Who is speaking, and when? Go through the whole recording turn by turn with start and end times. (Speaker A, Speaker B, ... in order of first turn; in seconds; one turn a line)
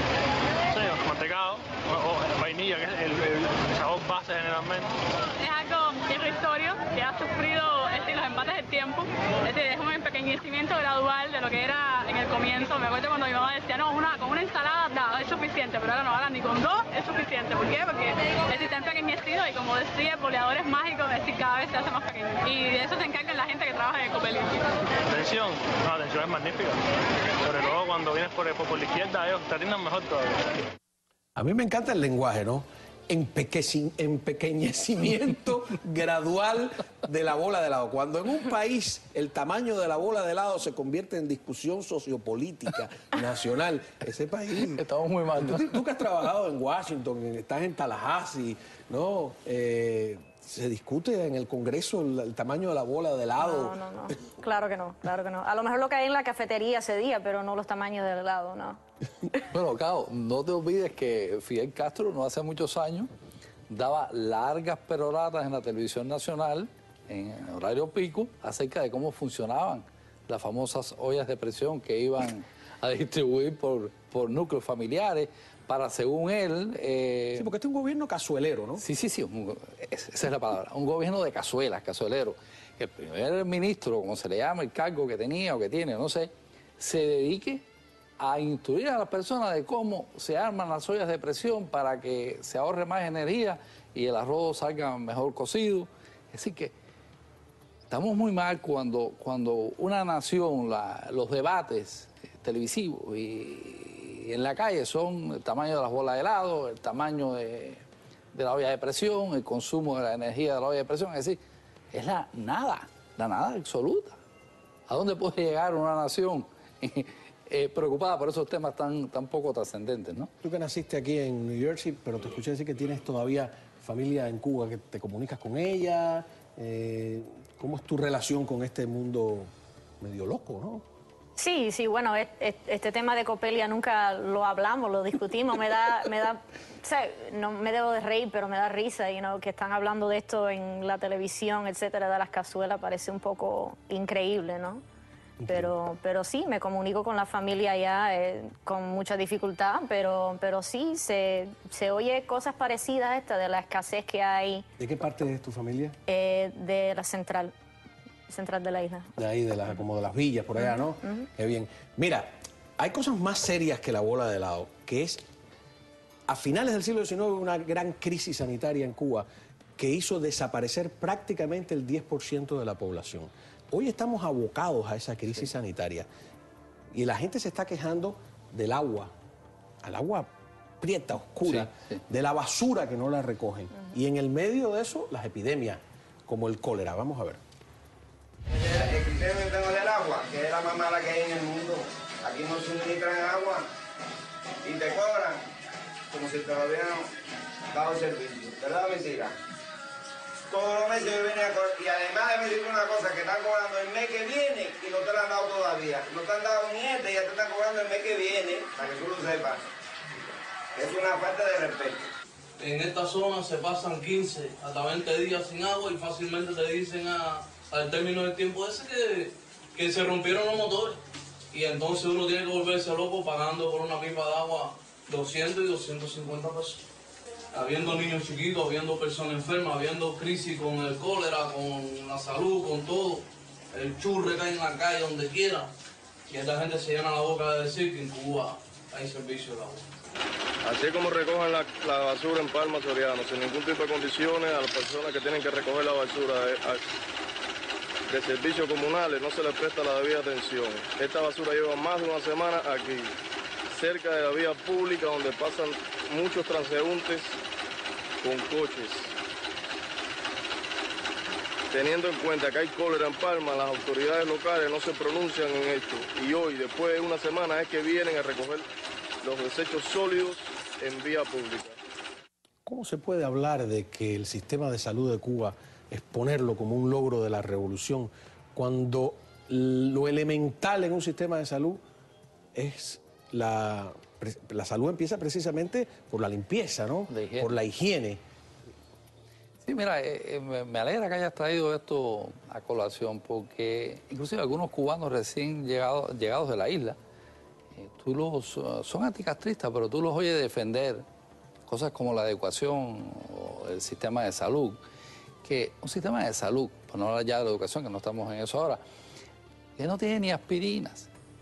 Speaker A: 0.7-4.9
Speaker B: 5.4-24.6
Speaker A: 25.1-26.8
Speaker A: 27.4-30.4
Speaker C: 31.4-44.8
Speaker D: 44.6-45.8
Speaker C: 45.4-53.8
Speaker E: 53.4-58.8
Speaker D: 59.5-63.1
Speaker D: 63.7-77.5
Speaker C: 77.3-78.8
Speaker D: 78.8-87.6
Speaker D: 88.2-96.7
Speaker D: 97.9-107.8
Speaker D: 108.3-111.4
Speaker D: 111.9-114.2
Speaker D: 114.9-120.3
Speaker C: 120.4-129.5
Speaker C: 130.0-130.8
Speaker E: 131.4-144.8
Speaker C: 145.4-145.7
Speaker E: 145.5-154.7
Speaker C: 154.8-156.0
Speaker E: 156.1-157.5
Speaker E: 158.3-159.1
Speaker C: 159.2-165.2
Speaker C: 166.3-169.3
Speaker C: 169.8-176.1
Speaker C: 176.9-179.1
Speaker C: 179.8-180.3
Speaker C: 180.8-187.4
Speaker D: 181.4-182.0
Speaker F: 188.5-193.7
Speaker F: 194.6-195.5
Speaker F: 196.1-197.1
Speaker F: 197.7-199.4
Speaker F: 200.5-209.7
Speaker F: 210.7-212.1
Speaker G: 212.6-221.0
Speaker G: 221.5-226.8
Speaker G: 227.5-235.7
Speaker G: 236.3-239.8
Speaker H: 240.6-246.8
Speaker H: 248.1-253.1
Speaker H: 253.7-257.4
Speaker H: 258.2-259.1
Speaker H: 261.7-268.7
Speaker H: 269.2-271.8
Speaker C: 272.7-281.8
Speaker C: 282.5-288.2
Speaker D: 287.1-287.6
Speaker D: 289.6-297.0
Speaker D: 297.8-301.1
Speaker D: 301.7-304.8
Speaker D: 305.4-308.8
Speaker D: 309.8-311.1